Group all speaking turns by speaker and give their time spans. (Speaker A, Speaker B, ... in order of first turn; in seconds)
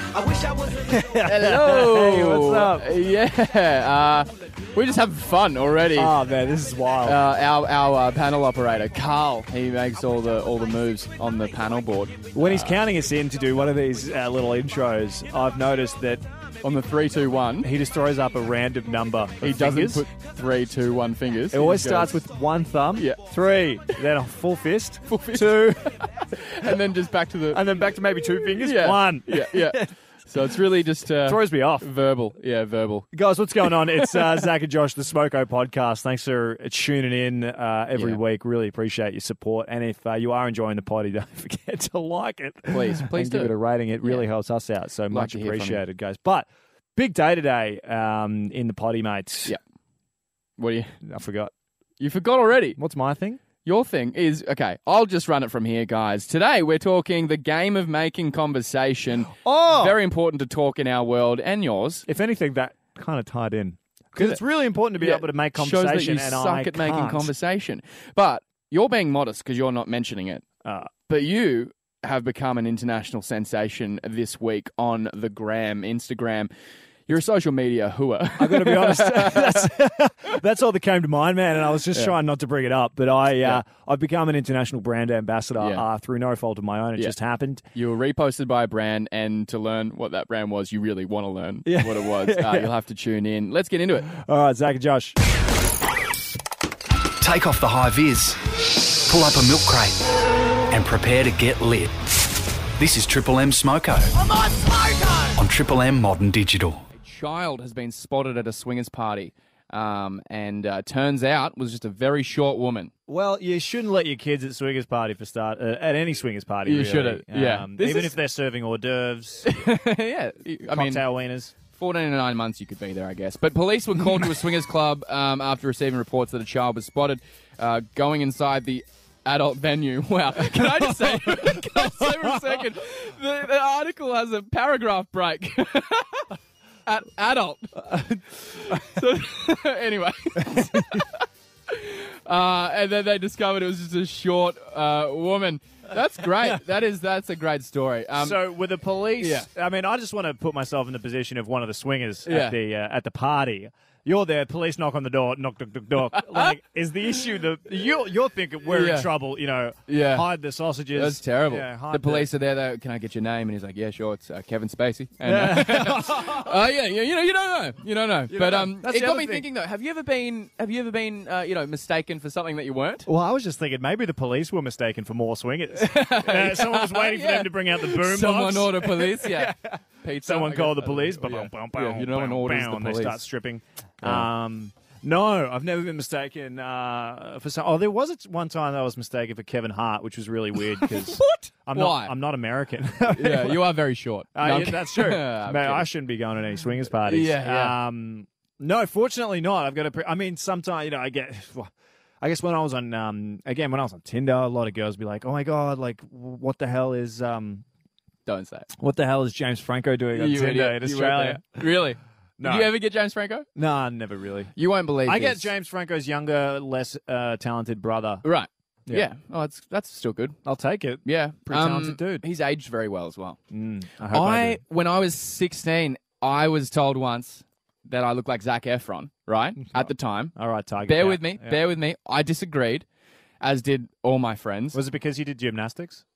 Speaker A: 0.7-2.9, 6.0-7.2, 12.3-16.3, 17.6-20.0, 21.5-25.9, 27.5-29.9, 31.3-31.9, 33.1-49.6, 51.0-51.5, 52.8-53.4, 59.3-60.0, 62.1-67.3, 70.7-70.9, 78.4-87.6, 91.7-92.7, 94.1-95.2, 113.1-119.6, 120.7-121.5, 130.4-132.6, 137.8-138.9, 140.4-141.1, 148.2-162.3, 165.3-166.6, 168.3-169.4, 173.1-193.6, 194.3-201.7, 202.2-207.7, 208.8-211.7, 212.4-212.7, 213.6-214.5, 215.1-218.2, 220.4-222.2, 223.5-224.6, 229.6-231.6, 234.7-236.0
Speaker B: 1.2-6.2, 7.0-12.8, 16.6-17.7, 19.4-22.2, 25.1-27.7, 28.6-33.1, 33.6-34.5, 42.7-44.2, 45.1-45.8, 50.6-51.0, 52.0-52.8, 53.6-62.0, 65.0-70.5, 71.1-76.5, 77.1-79.7, 85.6-85.8, 87.7-94.1, 107.0-112.9, 116.7-118.2, 119.4-121.0, 121.7-136.3, 136.9-148.5, 149.2-149.5, 152.3-152.6, 156.1-156.6, 158.7-159.2, 159.9-160.3, 160.9-173.1, 175.8-183.2, 184.0-184.3, 190.8-192.1, 193.1-195.9, 197.0-197.8, 208.3-208.7, 210.1-213.5, 214.6-215.5, 218.2-220.4, 221.1-223.4, 224.1-232.9, 233.4-234.8
Speaker C: 97.2-104.2, 105.3-106.9